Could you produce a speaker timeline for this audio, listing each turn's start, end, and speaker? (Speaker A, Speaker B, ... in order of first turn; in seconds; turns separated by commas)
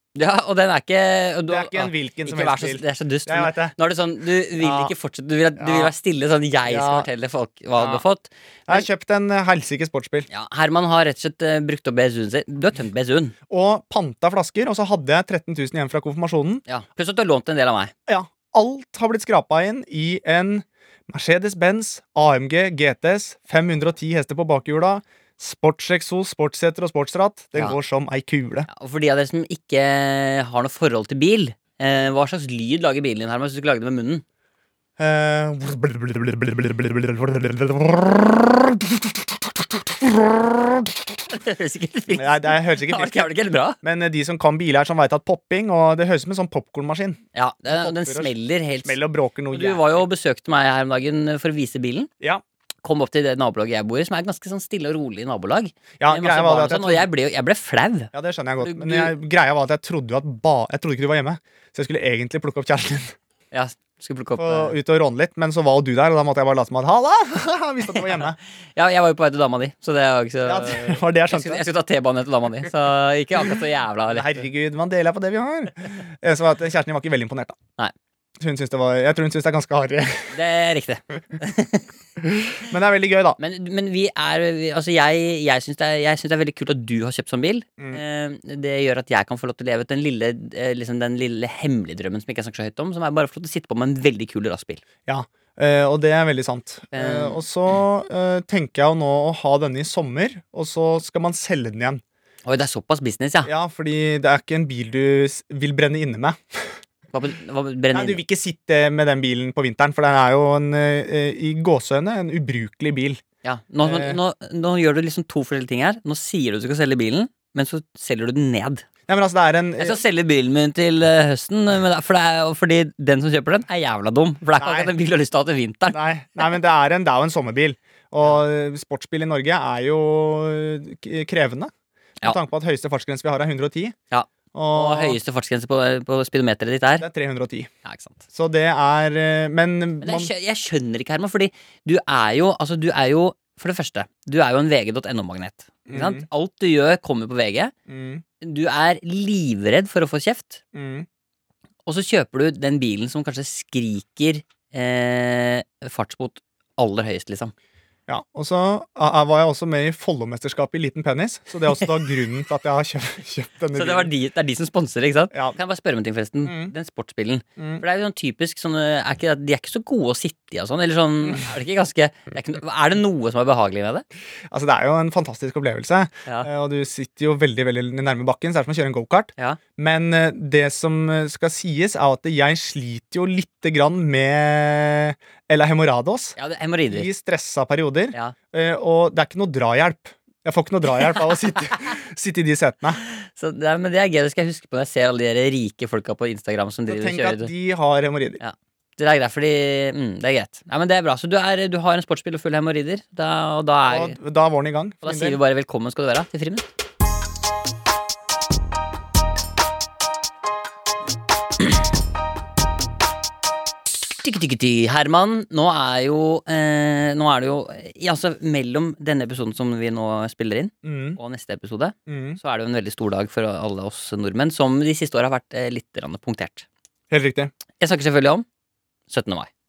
Speaker A: 0.1-8.9, Speaker B: 1.5-3.8, Speaker B: 4.6-4.9, Speaker B: 5.6-5.9, Speaker B: 6.7-7.1, Speaker B: 8.7-10.3, Speaker A: 10.3-13.3, Speaker B: 13.5-16.6, Speaker A: 16.7-17.9, Speaker B: 18.1-28.7, Speaker A: 28.7-34.2, Speaker B: 35.0-41.2, Speaker A: 41.3-43.8, Speaker B: 42.1-43.3, Speaker B: 43.8-48.3, Speaker A: 47.4-49.0, Speaker B: 48.8-50.0, Speaker A: 49.5-52.1, Speaker A: 52.8-59.1, Speaker B: 56.0-57.1, Speaker B: 58.1-63.1, Speaker A: 63.5-64.8, Speaker B: 64.4-68.4, Speaker A: 68.8-74.4, Speaker B: 70.5-71.7, Speaker B: 74.1-77.6, Speaker B: 78.4-80.3, Speaker A: 80.3-81.9, Speaker B: 82.2-83.4, Speaker A: 83.4-94.8, Speaker B: 95.1-102.0, Speaker A: 96.9-97.4, Speaker A: 102.5-103.5, Speaker B: 103.5-106.8, Speaker A: 107.1-108.2, Speaker B: 107.9-113.2, Speaker A: 113.4-118.9, Speaker B: 113.8-114.2, Speaker B: 119.1-120.0, Speaker A: 119.8-126.0, Speaker B: 124.6-124.9, Speaker B: 125.9-131.7, Speaker B: 132.2-134.0, Speaker A: 134.1-137.1, Speaker B: 134.5-135.2, Speaker B: 137.0-137.7, Speaker A: 137.8-138.2, Speaker B: 138.3-140.3, Speaker A: 140.0-147.7, Speaker B: 145.9-146.3, Speaker B: 147.9-148.2, Speaker A: 148.4-150.6, Speaker B: 150.7-151.1, Speaker A: 151.8-157.5, Speaker B: 158.1-164.1, Speaker A: 163.7-174.1, Speaker B: 166.4-166.7, Speaker B: 167.6-167.8, Speaker B: 174.5-186.4, Speaker A: 186.4-187.1, Speaker B: 186.9-193.0, Speaker A: 193.2-197.5, Speaker B: 196.9-198.4, Speaker A: 198.4-204.2, Speaker B: 203.9-205.4, Speaker A: 205.0-206.7, Speaker A: 214.1-226.7, Speaker B: 220.8-221.2, Speaker B: 222.1-222.4, Speaker B: 227.1-227.5, Speaker A: 227.8-228.5, Speaker A: 229.1-229.5